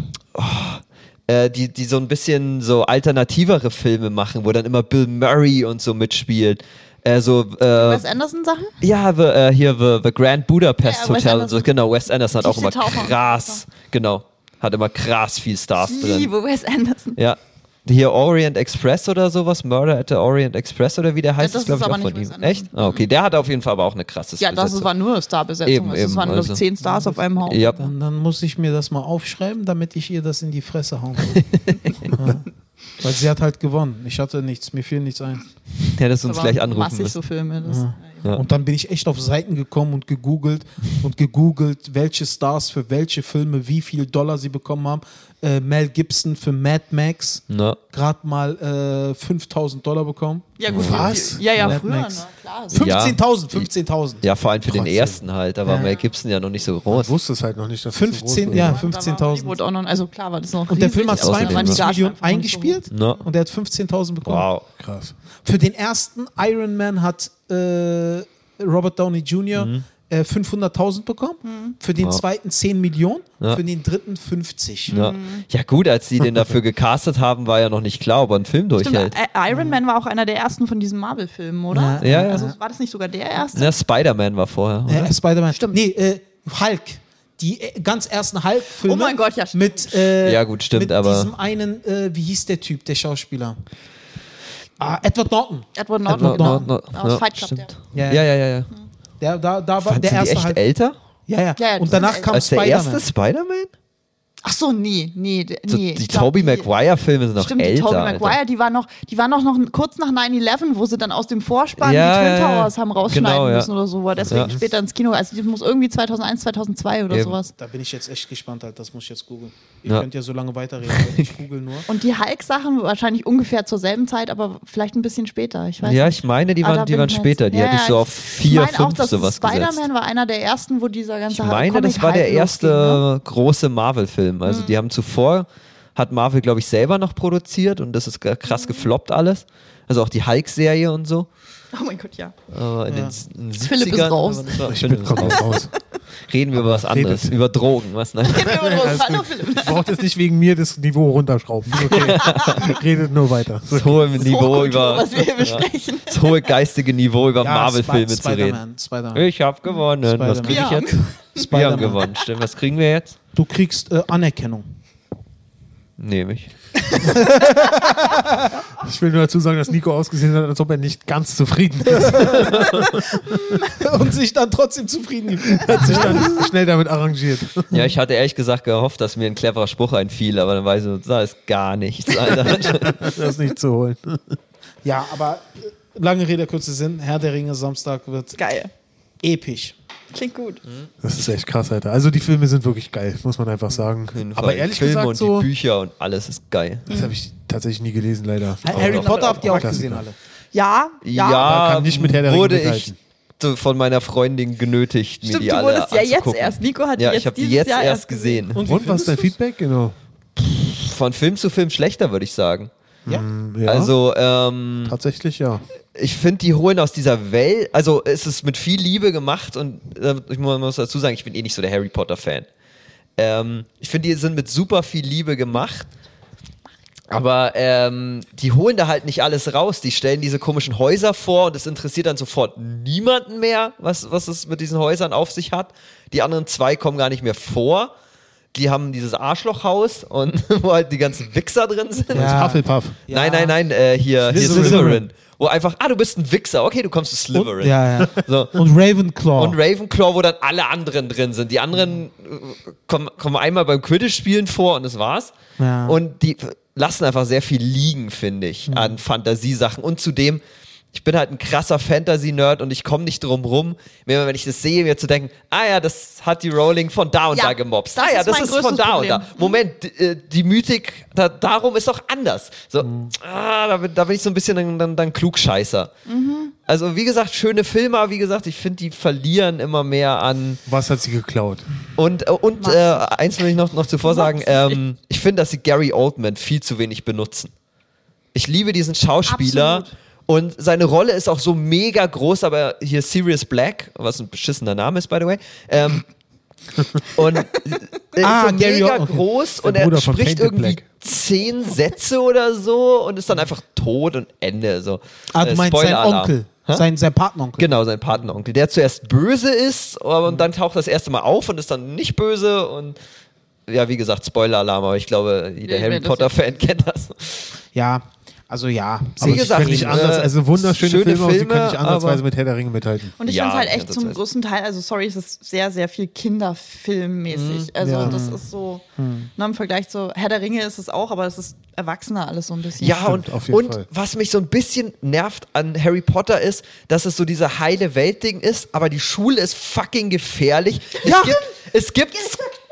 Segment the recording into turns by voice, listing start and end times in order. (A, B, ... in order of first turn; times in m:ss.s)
0:00.3-0:08.0 A
0:07.7-0:08.7 B
0:08.8-0:16.3 A
0:10.8-0:11.7 B
0:12.4-0:13.6 B
0:15.9-0:17.2 B
0:17.2-0:24.9 A
0:21.4-0:23.0 B
0:24.4-0:27.9 B
0:25.6-0:26.6 A
0:26.8-0:27.2 C
0:27.4-0:27.8 A
0:27.8-0:31.4 C
0:31.3-0:32.1 A
0:32.1-0:35.4 C
0:35.9-0:37.2 A
0:36.2-0:38.2 B
0:37.6-0:50.5 C
0:47.5-0:47.8 A
0:50.6-0:52.8 B
0:50.7-0:51.8 A
0:50.7-0:51.4 D
0:51.5-0:54.2 C
0:52.7-0:53.7 A
0:54.2-0:57.1 A
0:54.7-0:55.2 D
0:55.6-0:55.9 C
0:56.9-0:58.8 D
0:57.9-0:59.6 C
0:58.5-0:58.7 A
0:58.5-1:03.0 B
1:00.7-1:04.5 C
1:01.1-1:01.8 A
1:02.9-1:03.2 A
1:04.2-1:04.6 A
1:04.8-1:05.1 D
1:05.4-1:14.9 C
1:09.5-1:09.8 A
1:11.4-1:11.8 B
1:12.0-1:12.2 A
1:14.9-1:15.4 B
1:14.9-1:19.2 A
1:18.8-1:23.7 B
1:19.5-1:19.8 C
1:21.7-1:22.5 C
1:22.0-1:22.5 A
1:23.5-1:25.1 A
1:24.9-1:33.6 C
1:25.5-1:25.8 B
1:28.8-1:30.0 B
1:30.2-1:31.3 A
1:34.8-1:36.7 C
1:35.8-1:37.7 B
1:36.1-1:38.7 A
1:37.9-1:38.3 C
1:39.2-1:40.6 C
1:39.8-1:41.0 A
1:41.3-1:43.0 C
1:41.6-1:42.3 B
1:42.0-1:43.7 A
1:44.4-1:46.7 B
1:45.7-1:48.4 A
1:47.4-1:57.5 B
1:51.8-1:53.7 A
1:54.2-1:54.6 D
1:54.3-1:54.5 A
1:57.1-1:57.4 A
1:57.6-2:01.9 C
2:00.9-2:01.3 A
2:01.9-2:13.0 B
2:05.8-2:09.8 A
2:11.3-2:21.3 A
2:14.4-2:14.8 B
2:18.5-2:18.9 B
2:21.7-2:22.3 B
2:22.5-2:25.6 A
2:22.9-2:23.1 C
2:23.6-2:25.6 B
2:24.6-2:25.7 D
2:26.3-2:28.7 A
2:26.5-2:27.3 D
2:28.2-2:29.8 B
2:28.5-2:34.2 D
2:31.8-2:32.8 A
2:32.4-2:32.7 B
2:33.7-2:38.6 A
2:34.2-2:36.5 B
2:37.4-2:39.2 C
2:39.1-2:43.2 A
2:40.0-2:40.8 C
2:40.4-2:41.3 B
2:41.3-2:42.0 C
2:43.3-2:44.6 C
2:46.0-2:46.5 A
2:47.0-2:47.7 B
2:47.0-2:48.6 C
2:48.8-2:53.2 D
2:52.1-2:52.5 C
2:53.7-2:56.4 C
2:55.5-2:57.9 D
2:57.7-3:03.0 A
3:02.5-3:04.4 D
3:04.8-3:08.4 C
3:08.4-3:08.7 B
3:09.2-3:09.7 C
3:10.1-3:10.6 B
3:11.0-3:15.5 D
3:14.1-3:16.8 A
3:16.9-3:20.0 D
3:16.9-3:17.1 B
3:18.6-3:20.1 C
3:18.8-3:19.7 B
3:20.5-3:21.6 B
3:21.0-3:28.6 A
3:21.4-3:23.0 D
3:25.2-3:28.4 B
3:28.5-3:29.3 C
3:28.6-3:29.9 D
3:30.4-3:32.7 A
3:33.1-3:33.9 D
3:33.6-3:34.9 A
3:34.8-3:35.6 D
3:36.0-3:42.5 A
3:43.2-3:45.9 A
3:47.1-3:57.9 A
3:58.5-4:02.5 A
4:02.1-4:03.0 D
4:02.1-4:03.5 C
4:03.1-4:08.6 A
4:04.3-4:05.0 D
4:04.3-4:05.0 C
4:07.3-4:09.6 C
4:09.4-4:15.3 A
4:15.6-4:16.0 C
4:15.8-4:20.4 A
4:18.7-4:19.0 C
4:20.9-4:35.9 A
4:27.3-4:29.6 B
4:32.8-4:33.1 D
4:36.1-4:36.5 B
4:36.6-4:40.6 A
4:40.6-4:41.6 D
4:42.0-4:47.5 A
4:42.6-4:43.1 B
4:44.0-4:44.8 B
4:48.3-4:56.0 A
4:49.2-4:49.9 B
4:57.0-5:06.8 A
4:58.2-4:59.2 C
4:59.6-5:00.8 D
5:05.3-5:07.7 C
5:07.6-5:13.0 A
5:13.7-5:17.5 A
5:15.6-5:16.4 B
5:17.7-5:20.1 C
5:19.2-5:22.2 A
5:19.2-5:23.1 D
5:23.2-5:28.8 B
5:23.2-5:24.2 A
5:27.3-5:27.7 A
5:27.8-5:28.2 D
5:28.0-5:28.4 C
5:29.0-5:29.3 C
5:29.4-5:33.1 B
5:32.8-5:42.5 A
5:32.9-5:33.8 D
5:41.0-5:41.4 C